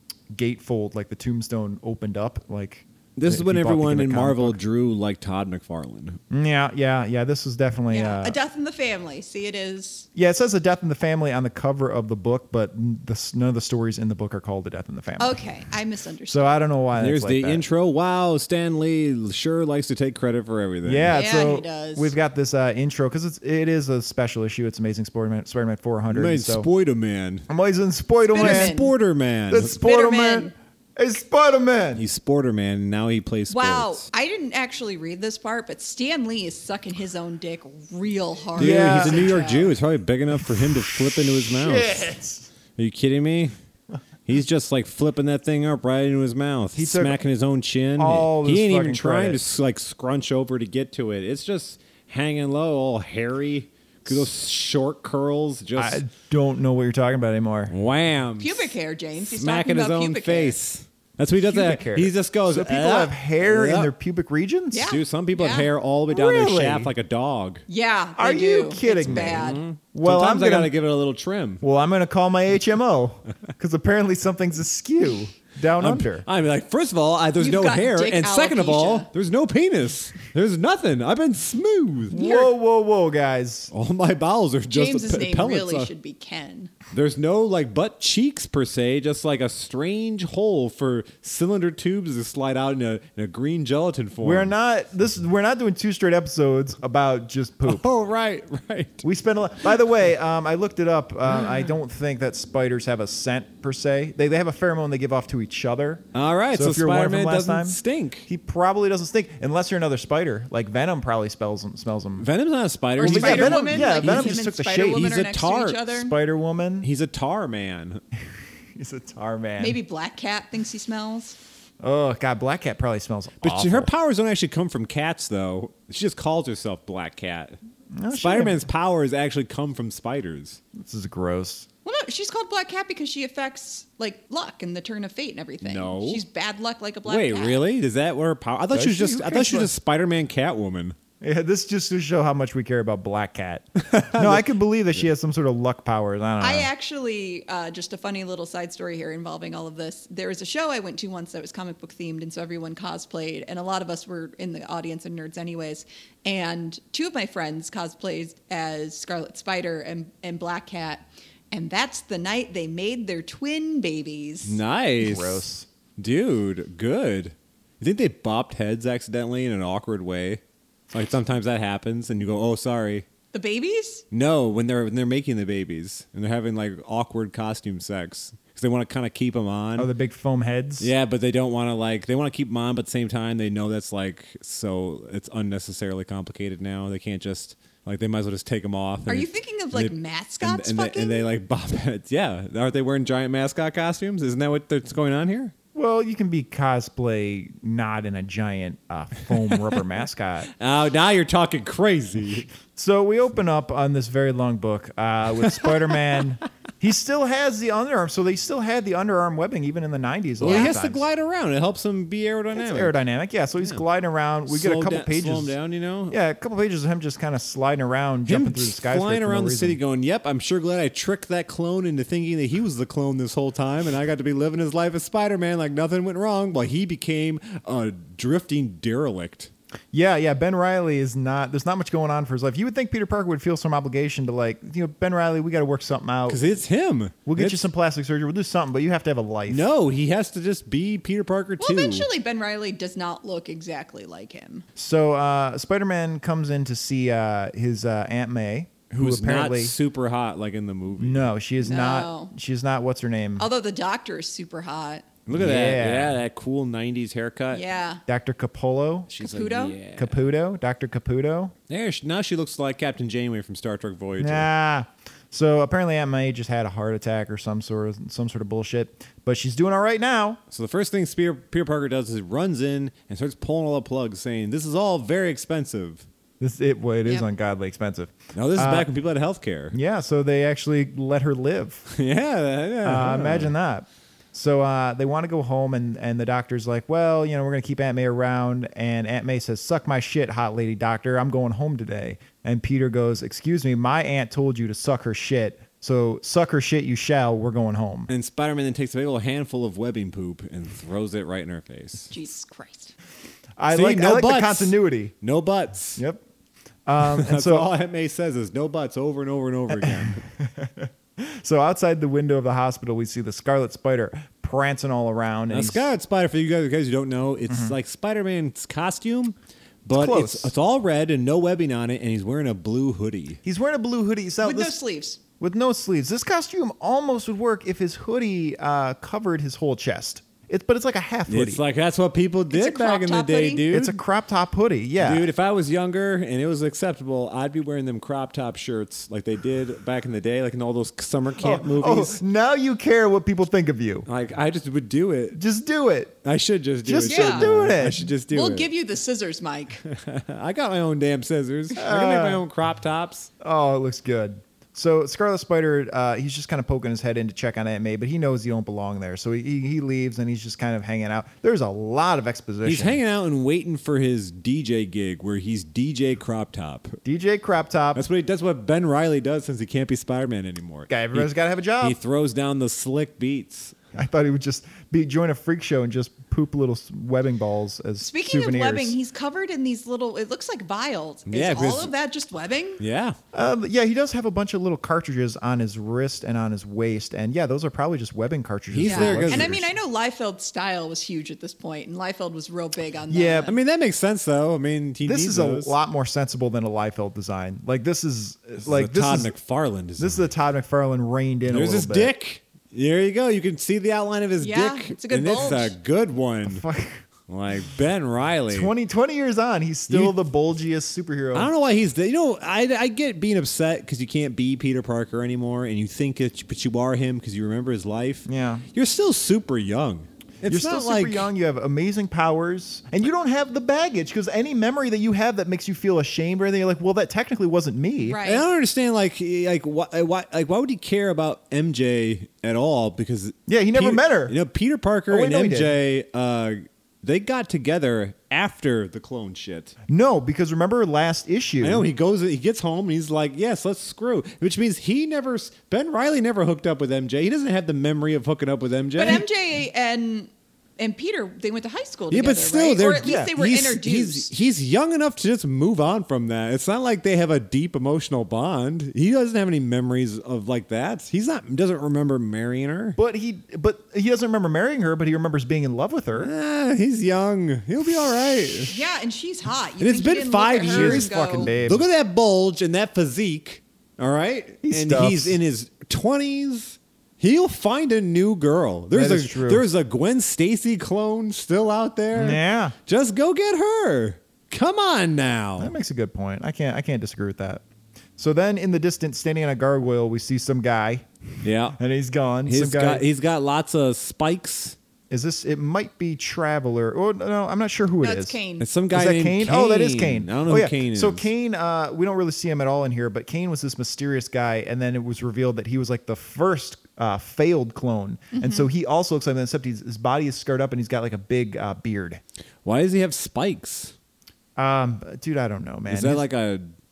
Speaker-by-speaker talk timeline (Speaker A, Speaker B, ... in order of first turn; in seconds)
Speaker A: 0.3-4.6, 6.3-8.4, 10.2-15.4, 16.3-17.6, 20.8-26.7, 27.5-28.7, 29.5-32.1, 38.6-39.3, 40.4-42.5, 46.8-47.2, 48.0-49.4, 55.8-57.7, 61.4-64.9, 66.1-66.9, 68.2-70.7, 71.6-76.2, 82.1-83.7, 94.2-97.8, 99.0-112.3, 113.0-115.1, 115.9-116.9, 118.8-119.8, 121.8-123.9, 128.0-128.7, 130.7-131.7, 138.7-139.7, 141.2-146.7, 165.0-165.7, 179.8-180.9, 195.8-200.5, 202.8-211.1, 212.5-215.6, 216.1-219.8, 229.9-236.4, 237.3-239.7, 244.8-249.8, 251.0-253.5, 255.3-256.2, 258.1-259.1, 259.9-261.5, 264.2-270.4, 276.4-278.9, 279.7-281.9, 282.8-298.1, 303.6-305.1, 306.0-306.2, 306.9-307.7, 309.7-315.9, 317.5-317.8, 319.9-320.5, 323.4-324.8, 325.4-331.6, 333.7-335.3, 341.4-344.1, 345.3-346.2, 346.8-348.1, 351.8-352.4, 353.4-363.0, 367.0-368.1, 370.9-372.0, 373.9-379.0, 383.3-389.7, 393.1-393.5, 395.1-399.3, 400.0-402.1, 406.5-407.0, 408.5-411.5, 418.3-418.6, 420.4-428.2, 433.5-434.4, 435.1-435.7, 439.9-441.9, 452.9-453.3, 463.0-466.3, 467.8-468.7, 470.7-471.9, 474.6-475.4, 478.9-479.6, 482.1-482.8, 485.6-487.6, 488.2-491.1, 491.8-493.0, 495.1-498.4, 498.9-512.2, 514.6-516.2
Speaker B: 3.2-6.2, 17.0-21.1, 26.1-27.5, 28.4-29.8, 32.0-34.1, 38.6-42.0, 42.8-43.5, 44.3-56.0, 57.7-58.7, 59.2-63.9, 64.8-67.6, 69.1-71.6, 75.8-82.2, 83.7-85.9, 86.9-94.5, 97.7-99.0, 101.3-101.7, 106.1-108.3, 112.2-114.4, 115.0-115.8, 116.8-118.0, 123.4-127.6, 128.1-130.6, 135.6-136.2, 137.1-141.0, 143.9-144.5, 164.5-170.4, 170.9-173.1, 174.1-179.9, 180.8-195.5, 200.6-202.5, 210.4-212.9, 214.5-216.2, 218.3-229.5, 236.3-237.7, 239.5-242.1, 249.0-251.3, 255.3-257.6, 259.1-260.2, 261.7-264.5, 270.5-276.1, 278.4-279.8, 281.9-283.5, 298.1-302.1, 303.7-306.0, 307.0-310.2, 315.5-323.4, 331.3-334.0, 335.0-342.2, 344.1-345.4, 346.2-348.7, 349.9-353.3, 362.6-367.0, 367.9-373.8, 381.3-381.9, 382.8-383.2, 388.7-389.6, 393.5-395.8, 398.6-400.3, 401.5-406.6, 407.3-408.7, 409.9-410.2, 411.4-421.3, 428.2-439.8, 441.6-449.3, 452.1-463.0, 466.2-468.8, 469.8-485.7, 491.4-491.8, 492.5-494.8, 498.6-501.3, 512.6-514.0, 515.9-516.7
Speaker C: 7.9-10.1, 15.2-16.6, 21.1-22.2, 28.3-28.9, 29.8-30.6, 33.5-39.7, 58.4-60.6, 64.7-65.7, 67.7-69.6, 77.4-79.1, 82.1-82.5, 84.7-86.7, 113.0-116.1, 119.6-121.4, 131.8-137.6, 146.4-164.6, 173.3-174.0, 189.1-191.3, 241.6-244.7, 251.6-252.3, 253.4-255.1, 257.5-258.0, 259.2-259.8, 302.1-302.9, 324.4-325.2, 332.5-333.6, 347.1-347.5, 348.3-349.8, 378.0-382.8, 388.8-393.6, 404.4-405.8, 428.0-428.5, 449.0-454.3, 468.7-471.5, 498.0-498.7, 508.3-508.7